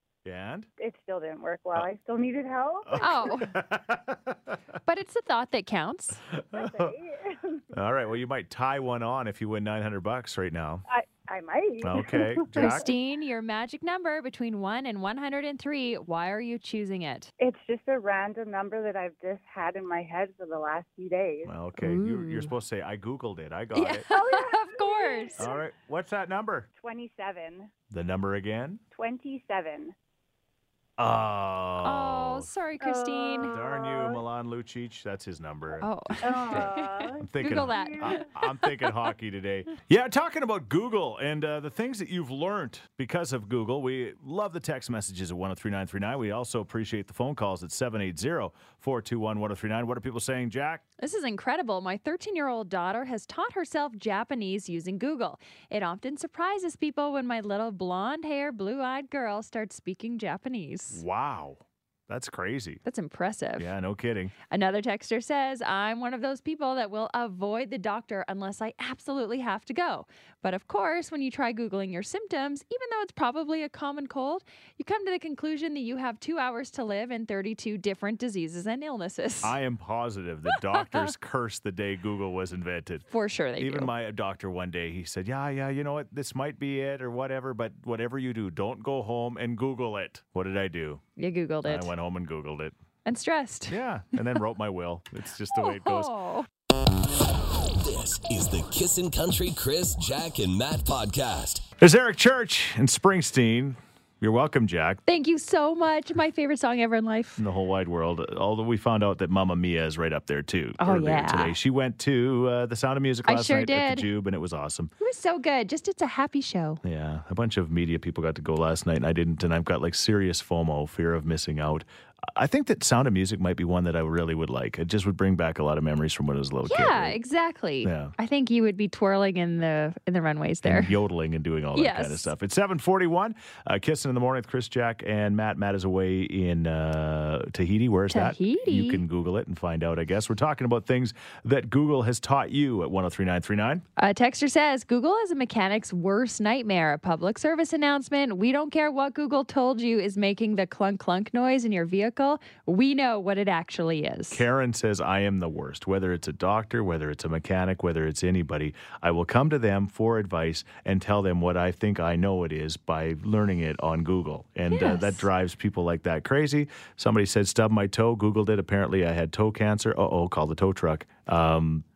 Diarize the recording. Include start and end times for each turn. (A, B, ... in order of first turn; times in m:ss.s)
0:00.2-0:00.7 A
0:00.8-0:03.3 B
0:02.9-0:04.6 A
0:03.0-0:03.5 C
0:04.9-0:06.2 C
0:06.3-0:07.0 A
0:06.5-0:07.6 B
0:07.7-0:10.8 A
0:10.9-0:12.9 B
0:11.8-0:12.9 A
0:12.5-0:17.3 C
0:17.4-0:21.5 B
0:21.4-0:24.1 A
0:21.8-0:22.5 C
0:23.7-0:25.5 C
0:24.1-0:25.6 B
0:25.4-0:26.7 A
0:26.8-0:27.7 B
0:27.9-0:28.8 A
0:28.9-0:30.0 B
0:31.0-0:32.5 A
0:31.8-0:33.6 C
0:32.8-0:34.2 B
0:33.4-0:50.8 A
0:35.8-0:38.3 C
0:36.2-0:38.3 B
0:51.0-1:01.0 C
1:00.9-1:02.8 A
1:02.8-1:03.7 C
1:03.6-1:04.3 A
1:04.5-1:19.6 C
1:19.4-1:23.1 A
1:20.7-1:21.1 C
1:23.1-1:23.9 C
1:23.6-1:31.0 A
1:31.2-1:31.9 C
1:31.6-1:32.8 A
1:33.0-1:33.8 C
1:33.7-1:36.1 A
1:35.5-1:36.5 C
1:37.7-1:41.7 D
1:41.8-1:45.0 A
1:45.1-1:47.4 C
1:47.4-1:54.9 A
1:50.8-1:51.6 C
1:53.3-1:54.1 C
1:55.0-1:56.8 C
1:56.8-2:07.2 A
2:06.6-2:11.0 C
2:07.8-2:08.1 A
2:10.6-2:23.8 A
2:11.8-2:12.3 C
2:18.1-2:19.0 C
2:24.0-2:34.4 C
2:34.3-2:51.8 A
2:44.7-2:45.3 C